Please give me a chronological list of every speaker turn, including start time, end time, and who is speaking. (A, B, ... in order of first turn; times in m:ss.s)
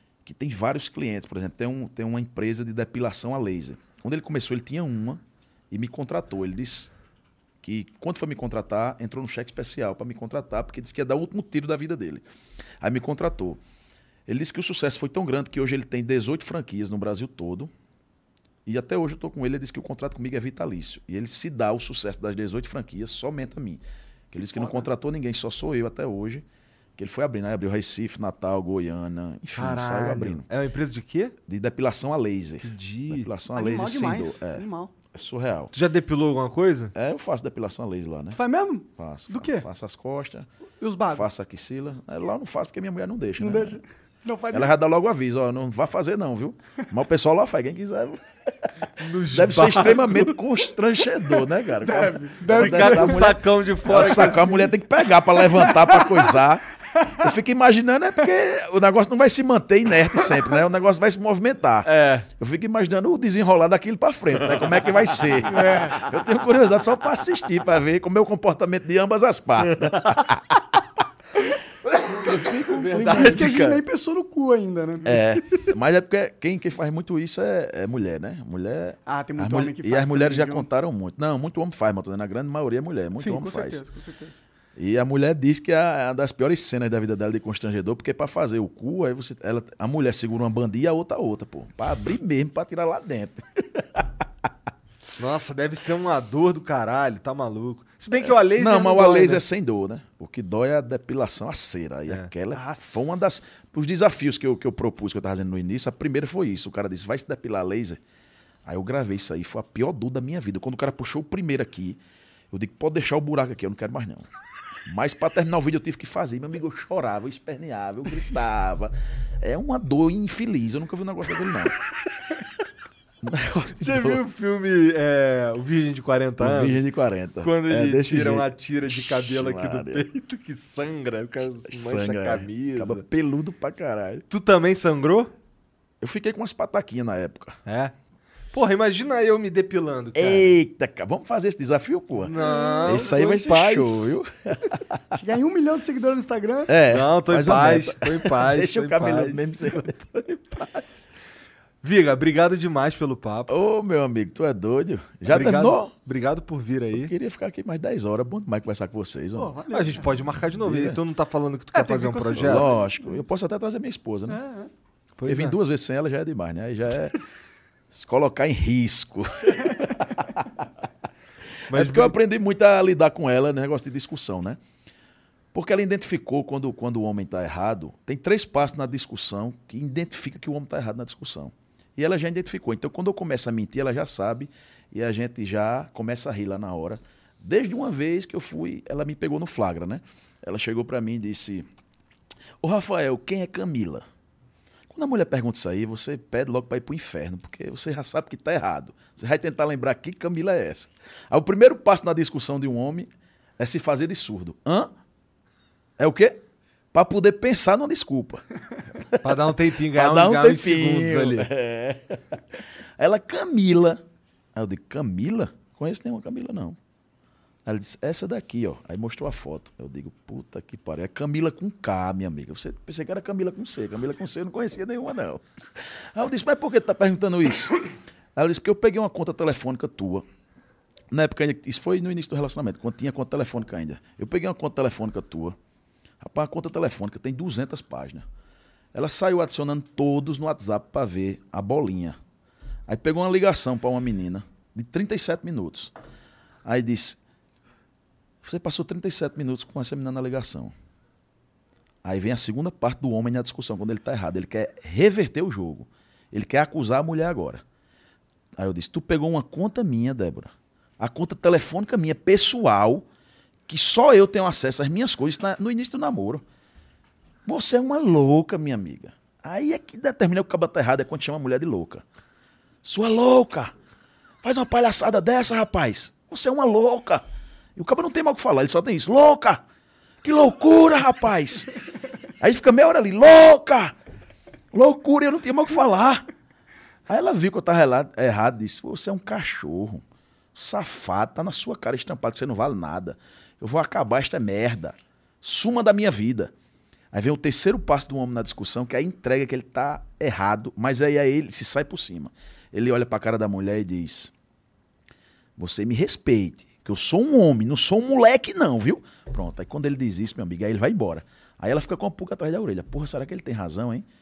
0:00.2-0:06.9 A
0:07.6-0:12.2 A
0:12.8-0:13.6 A
0:14.3-0:17.7 A
0:18.6-0:26.4 A
0:24.5-0:24.9 B
0:27.0-0:30.4 A
0:29.5-0:31.3 C
0:31.5-0:35.7 A
0:32.6-0:33.3 C
0:33.5-0:34.9 B
0:35.7-0:36.9 C
0:36.9-0:38.4 A
0:38.4-0:39.7 B
0:39.0-0:40.4 A
0:40.8-0:41.3 B
0:41.1-0:43.8 A
0:43.4-0:44.7 B
0:44.5-1:10.8 A
0:49.0-0:50.4 C
0:51.8-0:53.4 B
0:52.5-0:54.8 C
0:55.3-0:56.3 B
0:57.0-0:57.2 B
1:01.8-1:02.3 C
1:05.4-1:06.0 B
1:09.8-1:10.1 C
1:12.0-1:13.5 C
1:12.1-1:13.8 A
1:13.0-1:15.4 B
1:15.0-1:23.8 A
1:19.0-1:20.7 B
1:23.2-1:24.4 B
1:24.8-1:34.1 A
1:35.2-1:39.4 C
1:38.2-1:48.0 A
1:42.5-1:43.1 B
1:48.6-1:52.0 A
1:52.5-1:54.3 A
1:54.8-2:01.8 A
2:03.2-2:04.2 A
2:03.8-2:06.8 C
2:06.4-2:10.0 A
2:07.4-2:13.0 C
2:11.7-2:14.3 A
2:14.3-2:15.3 C
2:16.0-2:17.6 A
2:17.6-2:17.9 C
2:18.5-2:20.6 C
2:20.1-2:25.2 A
2:22.2-2:24.1 C
2:22.4-2:23.1 B
2:25.1-2:26.7 B
2:26.7-2:31.0 A
2:26.8-2:29.9 C
2:31.8-2:33.5 C
2:33.5-2:35.9 A
2:35.2-2:37.1 C
2:36.9-2:39.5 A
2:39.4-2:40.0 B
2:39.7-2:42.7 C
2:40.6-2:41.0 A
2:41.7-2:43.3 B
2:42.4-2:44.4 A
2:44.3-2:44.7 B
2:45.2-2:45.6 C
2:45.3-2:47.2 A
2:47.9-2:50.5 A
2:51.7-2:54.6 A
2:51.7-2:52.2 C
2:55.5-3:11.6 A
3:12.6-3:14.0 A
3:14.9-3:24.9 A
3:26.0-3:26.4 A
3:26.9-3:28.4 A
3:29.0-3:34.0 A
3:29.2-3:31.5 C
3:34.6-3:36.8 A
3:37.6-3:45.4 A
3:46.1-3:47.8 A
3:48.4-3:50.2 A
3:51.1-3:55.6 A
3:56.2-3:58.2 A
3:58.9-4:02.2 A
4:02.9-4:05.9 A
4:06.6-4:07.2 A
4:08.4-4:10.7 A
4:12.0-4:17.6 A
4:18.6-4:23.0 A
4:23.7-4:26.4 A
4:27.4-4:32.0 A
4:32.8-4:33.7 A
4:34.4-4:37.2 A
4:37.8-4:39.6 A
4:40.2-4:41.7 A
4:42.4-4:43.9 A
4:44.7-4:46.3 A
4:47.1-4:50.0 A
4:50.6-4:56.5 A
4:57.1-5:04.3 A
5:05.6-5:14.0 A